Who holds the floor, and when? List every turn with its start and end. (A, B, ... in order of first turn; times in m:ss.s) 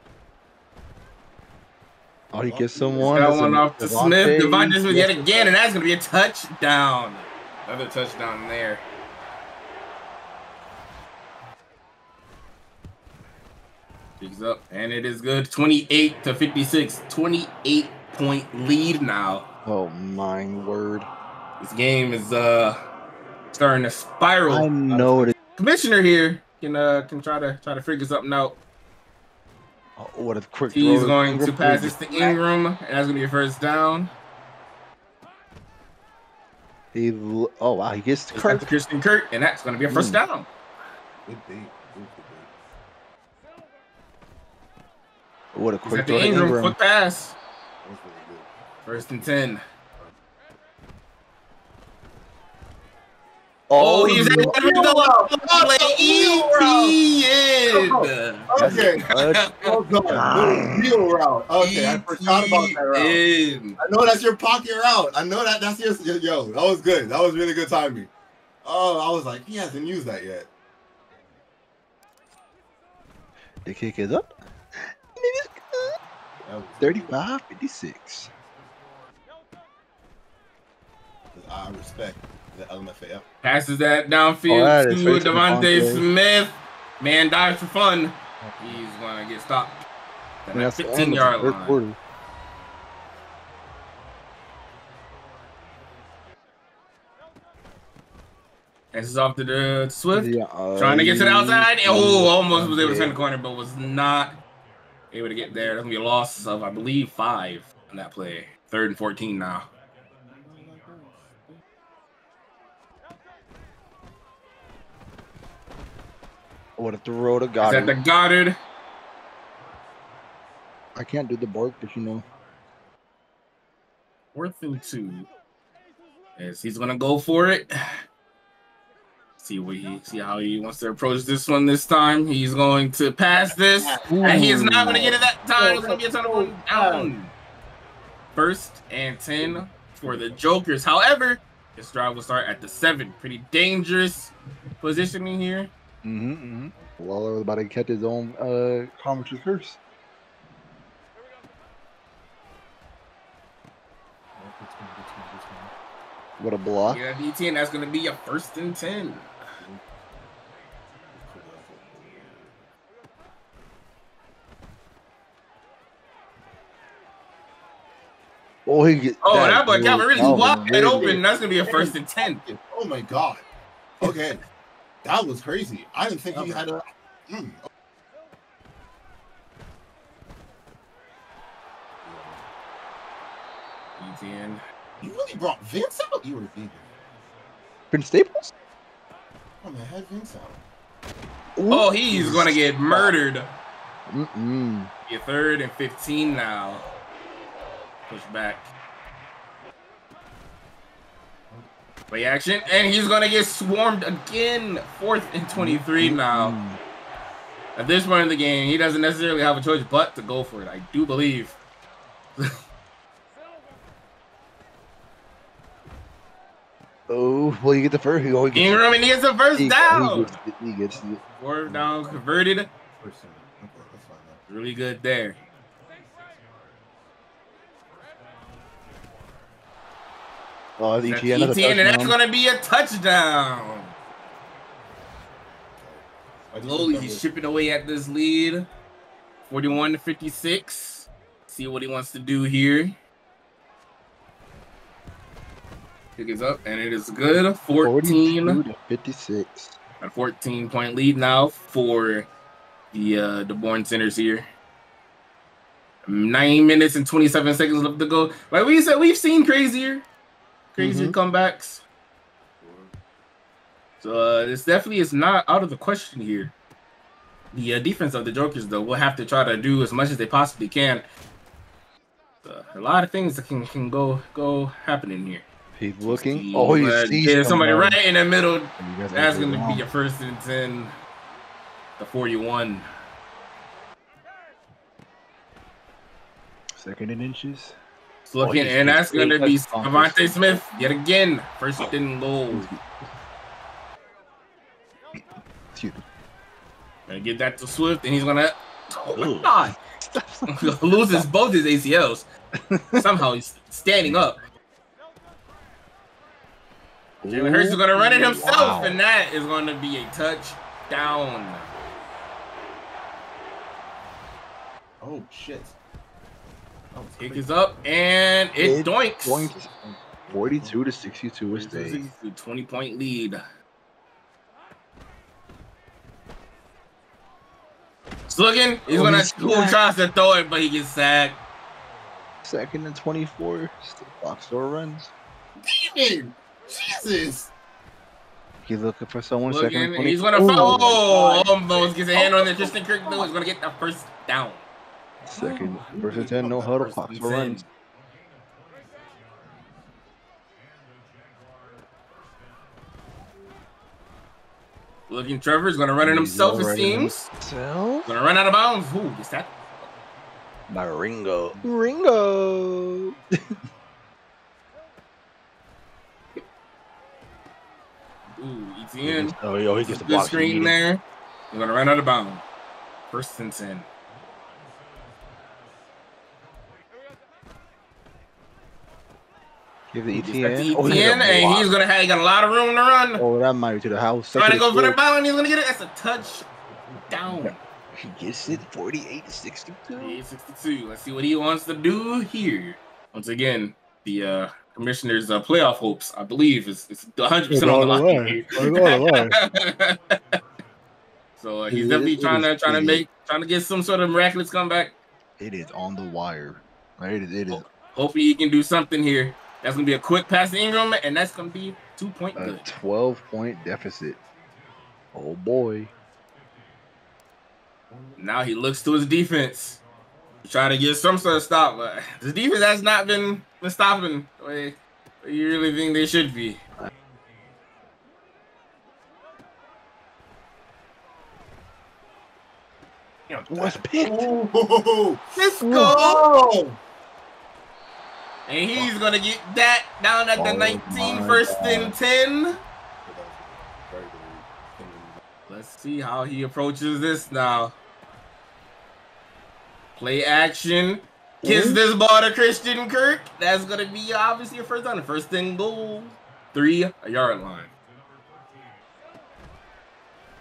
0:02.3-0:05.5 A
0:02.4-0:03.6 B
0:03.0-0:08.8 C
0:14.2-0:19.4 C
0:19.6-0:21.1 A
0:21.6-0:22.8 C
0:23.5-0:28.6 C
0:24.5-0:25.3 A
0:30.0-0:32.4 A
0:30.7-0:34.1 C
0:36.9-0:38.7 A
0:38.3-0:40.5 C
0:39.9-0:40.2 A
0:41.2-0:42.5 B
0:45.5-0:46.8 A
0:45.8-0:47.3 C
0:47.8-0:49.4 B
0:48.8-0:49.6 C
0:53.7-0:54.6 A
0:53.8-0:59.8 C
0:54.3-0:57.0 B
0:57.7-0:59.1 B
0:58.6-0:59.5 A
0:59.6-1:03.2 B
1:00.0-1:01.0 A
1:01.6-1:03.8 C
1:03.8-1:08.1 B
1:08.6-1:10.5 B
1:13.6-1:15.9 A
1:16.4-1:17.1 B
1:16.8-1:18.3 A
1:21.3-1:23.2 B
1:23.4-1:29.8 C
1:24.5-1:26.0 A
1:28.4-1:28.8 A
1:30.4-1:31.8 C
1:30.5-1:32.0 A
1:38.9-1:44.4 C
1:40.1-1:43.2 A
1:45.1-1:49.7 C
1:45.4-1:45.8 B
1:50.5-1:51.2 B
1:56.8-1:58.0 A
1:57.6-1:58.5 C
2:00.9-2:02.2 A
2:04.3-2:05.3 C
2:06.4-2:07.7 C
2:09.4-2:17.3 C
2:13.5-2:17.1 B
2:14.1-2:15.2 A
2:18.3-2:25.7 C
2:19.4-2:20.4 B
2:26.0-2:29.8 A
2:34.4-2:35.7 B
2:36.4-2:37.0 A
2:36.9-2:39.3 C
2:41.1-2:41.9 B
2:48.6-2:51.2 A
2:49.2-2:52.4 C
2:50.1-2:53.4 B
2:54.0-2:54.4 B
2:55.0-2:57.6 B
2:56.3-2:56.6 A
3:02.0-3:02.4 B
3:04.0-3:04.6 C
3:05.0-3:06.9 B
3:07.9-3:08.5 A
3:09.6-3:10.6 B
3:11.6-3:13.2 A
3:11.7-3:13.5 C
3:14.1-3:14.9 A
3:15.1-3:16.8 C
3:18.1-3:18.7 C
3:22.1-3:26.6 C
3:25.5-3:26.8 A
3:27.7-3:31.6 C
3:37.1-3:38.9 A
3:38.5-3:40.4 C
3:39.5-3:41.2 A
3:41.4-3:42.7 C
3:41.6-3:42.2 B
3:43.0-3:44.4 B
3:44.5-3:45.4 C
3:50.8-3:52.2 A
3:51.0-3:53.9 C
3:55.8-3:57.2 B
3:56.6-3:58.7 C
3:59.5-4:02.9 C
4:06.2-4:08.6 C
4:07.8-4:09.7 A
4:10.0-4:12.3 C
4:12.9-4:14.4 C
4:16.1-4:20.1 C
4:20.7-4:21.8 C
4:20.8-4:21.1 A
4:22.6-4:22.9 B
4:24.0-4:26.5 C
4:27.5-4:31.0 C
4:32.4-4:35.4 C
4:35.7-4:38.0 A
4:36.0-4:40.9 C
4:38.8-4:39.9 A
4:42.0-4:42.8 C
4:46.8-4:47.7 A
4:48.2-4:52.7 C
4:48.4-4:50.9 A
4:52.5-4:52.8 A
4:55.7-4:56.0 A
4:57.1-4:59.8 C
4:59.2-5:01.3 A
5:00.6-5:02.2 C
5:02.7-5:03.1 A
5:03.0-5:04.4 C
5:07.2-5:09.0 A
5:07.3-5:11.7 C
5:15.0-5:15.7 B
5:16.9-5:17.5 B
5:17.2-5:19.5 C
5:18.6-5:22.0 A
5:19.8-5:20.8 B
5:21.5-5:23.4 C
5:28.3-5:31.4 C
5:28.9-5:29.8 A
5:32.4-5:35.1 A
5:35.6-5:37.5 B
5:38.6-5:41.6 A
5:39.4-5:44.6 C
5:42.1-5:43.3 A
5:45.2-5:47.6 A
5:45.3-5:47.6 C
5:46.0-5:46.6 B
5:55.1-5:57.3 C
5:56.0-5:58.1 A
5:58.0-5:59.9 C
6:00.7-6:03.1 A
6:08.3-6:12.4 C
6:09.0-6:10.8 A
6:13.1-6:13.9 C
6:19.9-6:21.7 A
6:20.1-6:23.2 C
6:23.2-6:25.0 A
6:24.3-6:26.4 C
6:26.2-6:27.2 B
6:27.1-6:27.6 C
6:27.3-6:30.2 A
6:30.0-6:40.0 C
6:37.5-6:39.4 A
6:41.4-6:45.0 C
6:41.7-6:43.0 A
6:45.4-6:47.6 A
6:47.5-6:52.6 C
6:52.3-6:54.2 A
6:55.1-6:55.9 A
6:58.2-6:59.8 C
7:00.4-7:06.6 C
7:13.3-7:15.2 B
7:13.5-7:14.3 A
7:15.4-7:16.2 C
7:15.6-7:16.0 A
7:15.9-7:16.8 B
7:18.5-7:22.6 C
7:20.4-7:22.0 A
7:23.0-7:25.2 B
7:25.5-7:27.7 C
7:30.0-7:37.7 C
7:31.4-7:31.8 A